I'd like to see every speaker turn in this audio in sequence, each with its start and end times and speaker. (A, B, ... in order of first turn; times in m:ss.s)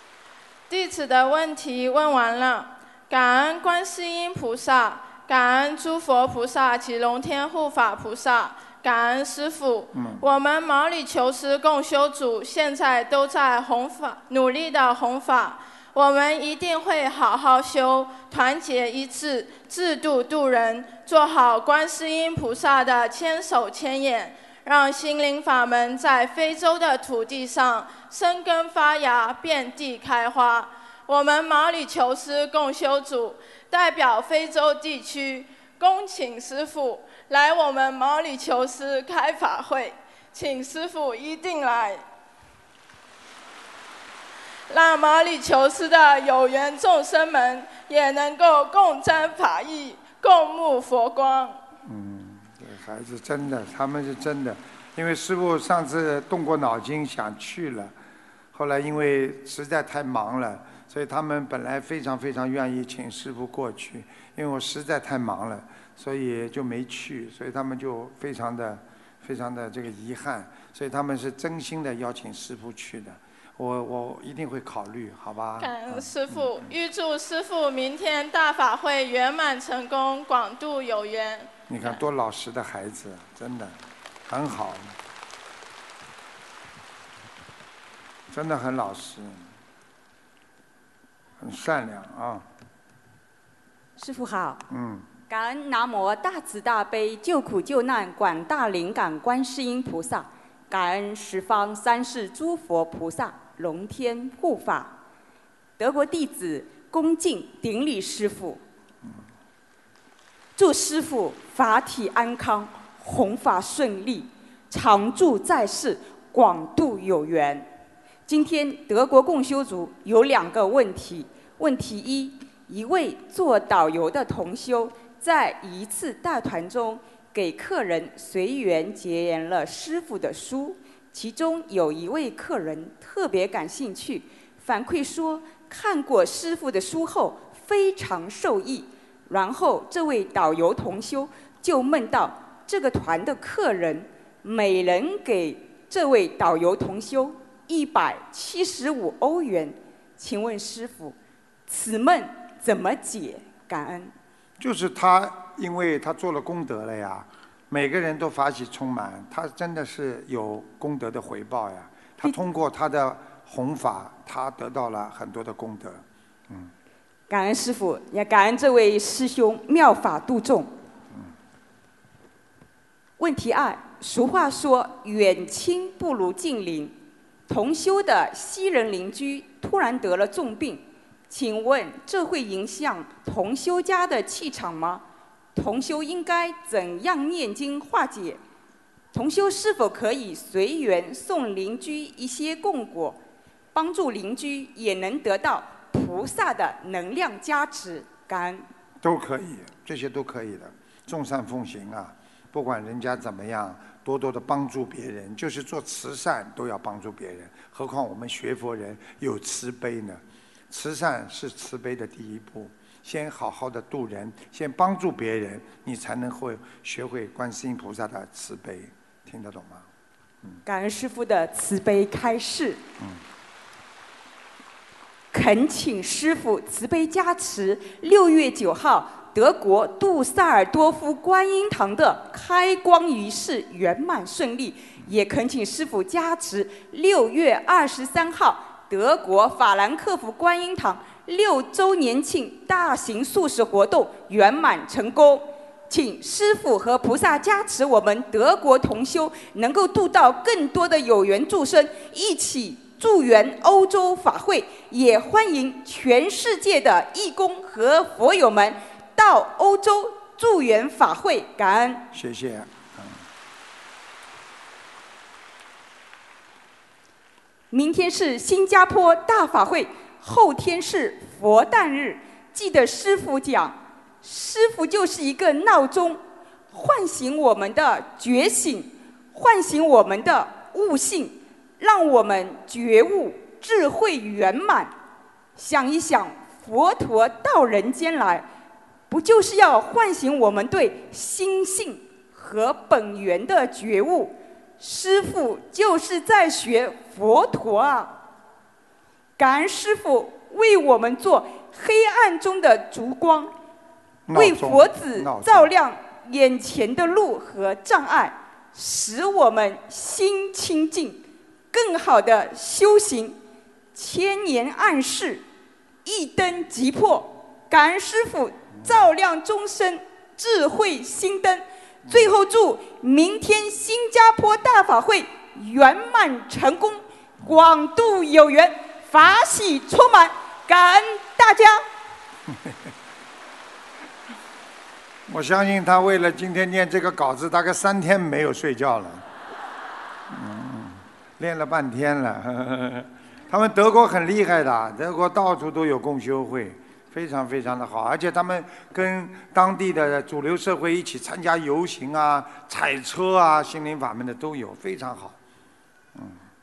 0:00.7-0:42.0 A
0:09.9-0:10.2 B
0:44.7-0:51.6 A
0:51.8-0:57.9 B
0:58.5-1:16.7 B
1:15.6-1:22.0 A
1:21.7-1:23.8 B
1:24.3-1:24.9 B
1:28.3-1:29.4 B
1:31.4-1:32.4 B
1:34.0-1:34.6 C
1:34.7-1:35.0 B
1:35.3-1:44.9 C
1:45.8-1:48.6 C
1:50.6-1:57.7 C
1:58.3-2:31.2 C
2:31.7-2:34.1 C
2:34.6-2:46.7 B
2:47.3-2:50.7 C
2:53.2-2:57.0 C
2:57.5-3:05.0 C
3:05.5-3:08.4 C
3:09.1-3:13.2 C
3:13.7-3:18.6 C
3:19.0-3:39.8 B
3:40.6-3:42.8 C
3:45.3-4:22.1 C
4:22.1-4:23.1 B
4:27.7-4:44.9 C
4:45.6-4:48.5 C
4:49.1-4:58.2 C
4:59.4-5:03.5 C
5:04.3-5:05.7 B
5:04.3-5:13.4 C
5:13.9-5:15.4 C
5:16.0-5:31.8 C
5:35.3-5:39.2 B
5:40.3-5:55.4 B